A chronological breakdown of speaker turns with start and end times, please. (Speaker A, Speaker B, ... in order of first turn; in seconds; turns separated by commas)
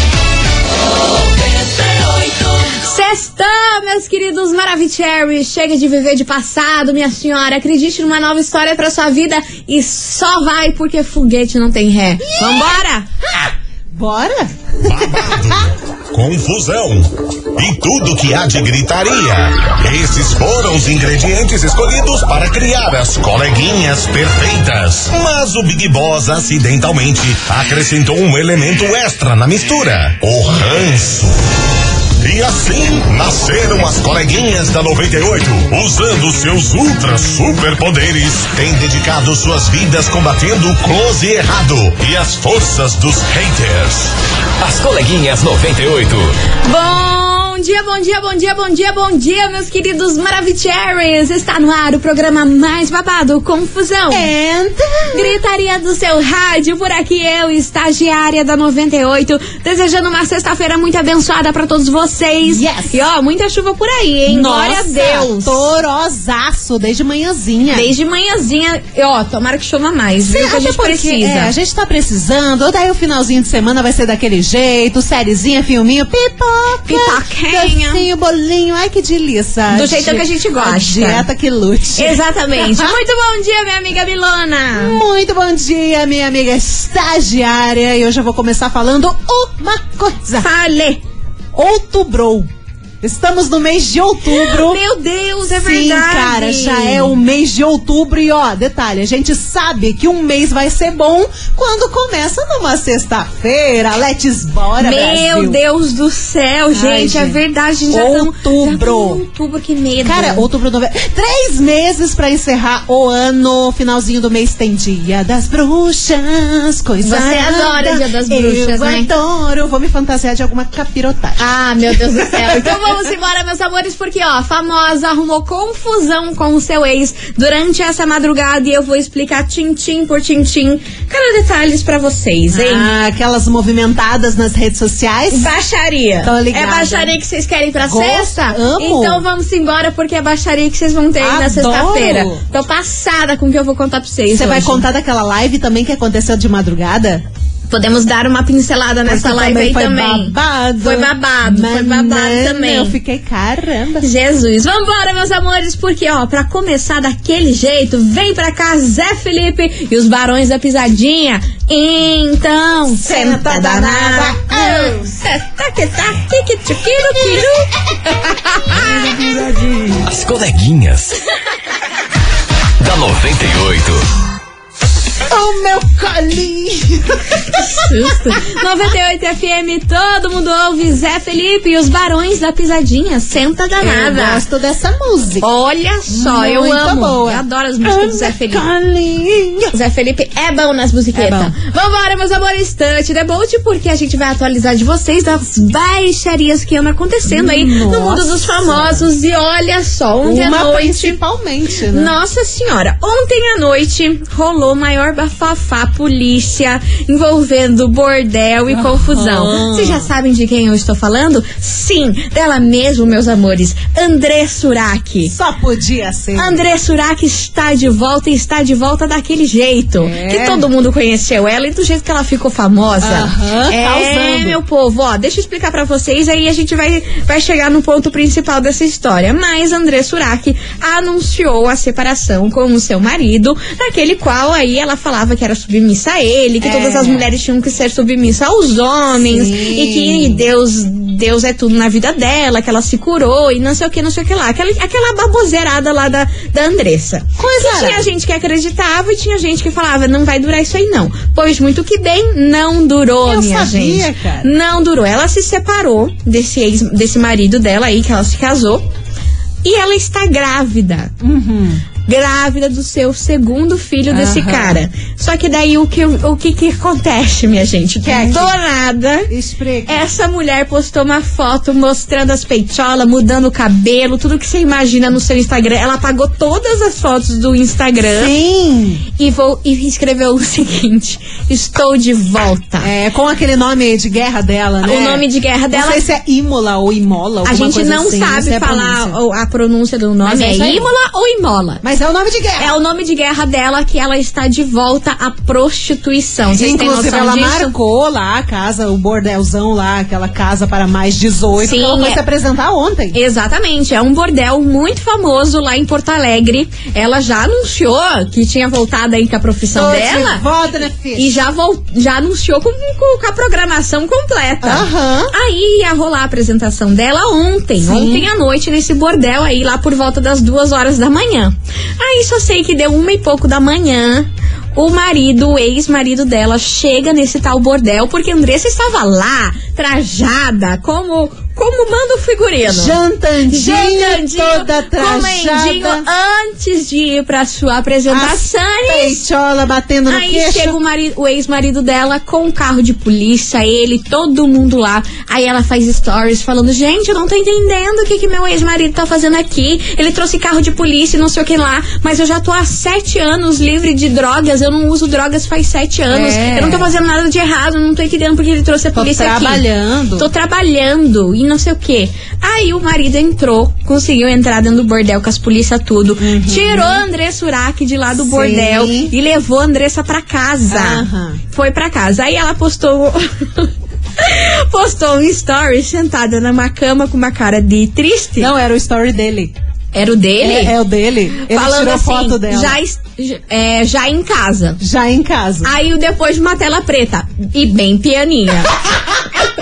Speaker A: 2.6-13.1, Speaker B: 12.3-12.8, Speaker B: 13.3-14.5, Speaker C: 14.9-15.6, Speaker C: 16.1-31.4, Speaker C: 32.2-44.1, Speaker D: 44.6-46.3, Speaker A: 46.6-54.3, Speaker B: 54.1-55.4, Speaker A: 55.1-65.7, Speaker B: 62.4-62.9, Speaker B: 64.3-67.9, Speaker A: 67.7-71.5, Speaker B: 70.3-83.0, Speaker A: 76.9-78.0, Speaker A: 79.7-81.3, Speaker A: 82.0-85.0, Speaker B: 84.8-90.5, Speaker A: 90.4-91.0, Speaker B: 91.5-92.5, Speaker B: 93.0-94.8, Speaker A: 94.3-97.2, Speaker B: 95.5-105.6, Speaker A: 104.8-110.5, Speaker B: 106.7-109.2, Speaker B: 110.0-121.4, Speaker A: 117.0-119.1, Speaker A: 121.4-132.9, Speaker B: 122.3-122.8, Speaker B: 132.5-135.5, Speaker A: 135.3-144.8, Speaker B: 136.2-137.1, Speaker B: 137.8-139.2, Speaker B: 141.2-142.4, Speaker B: 144.3-147.2, Speaker A: 147.7-153.0, Speaker B: 149.1-154.0, Speaker A: 154.0-169.0, Speaker B: 162.9-165.2, Speaker B: 167.1-167.4, Speaker B: 168.7-170.0, Speaker D: 170.0-171.2, Speaker D: 172.8-174.1, Speaker B: 175.3-177.8, Speaker A: 177.5-184.4, Speaker B: 183.8-185.4, Speaker A: 185.4-188.7, Speaker B: 186.1-189.7, Speaker A: 189.7-201.2, Speaker B: 191.1-191.5, Speaker B: 197.3-199.1, Speaker B: 200.2-202.1, Speaker A: 201.9-215.3, Speaker B: 208.7-210.1, Speaker B: 215.2-216.6, Speaker A: 216.4-258.9, Speaker B: 220.0-220.6, Speaker B: 223.0-224.6, Speaker B: 236.6-237.3, Speaker B: 239.2-240.4, Speaker B: 247.4-248.1, Speaker B: 253.2-254.5, Speaker A: 259.6-261.1, Speaker B: 261.2-261.8, Speaker A: 262.1-269.3, Speaker B: 264.1-264.8, Speaker B: 268.0-268.5, Speaker B: 269.3-270.0, Speaker A: 269.9-278.3, Speaker B: 278.1-279.0, Speaker A: 279.2-282.9, Speaker B: 282.8-289.1, Speaker A: 284.8-286.0, Speaker A: 287.4-291.8, Speaker B: 290.2-290.9, Speaker B: 291.8-292.8, Speaker A: 292.6-297.7, Speaker B: 296.4-303.1, Speaker A: 301.6-302.2, Speaker A: 303.1-310.4, Speaker B: 309.7-311.4, Speaker A: 311.1-333.0, Speaker B: 314.6-315.3, Speaker B: 317.8-318.3, Speaker B: 332.6-336.0, Speaker A: 333.5-339.2, Speaker B: 338.1-340.8, Speaker A: 340.1-359.6, Speaker B: 356.1-356.9, Speaker B: 358.9-360.3, Speaker A: 360.2-378.5, Speaker B: 366.2-367.0, Speaker B: 368.2-369.1, Speaker B: 370.7-371.4, Speaker B: 378.4-379.5, Speaker A: 379.9-380.7, Speaker B: 380.4-382.8, Speaker A: 381.5-384.8, Speaker B: 384.8-385.7, Speaker A: 385.6-388.8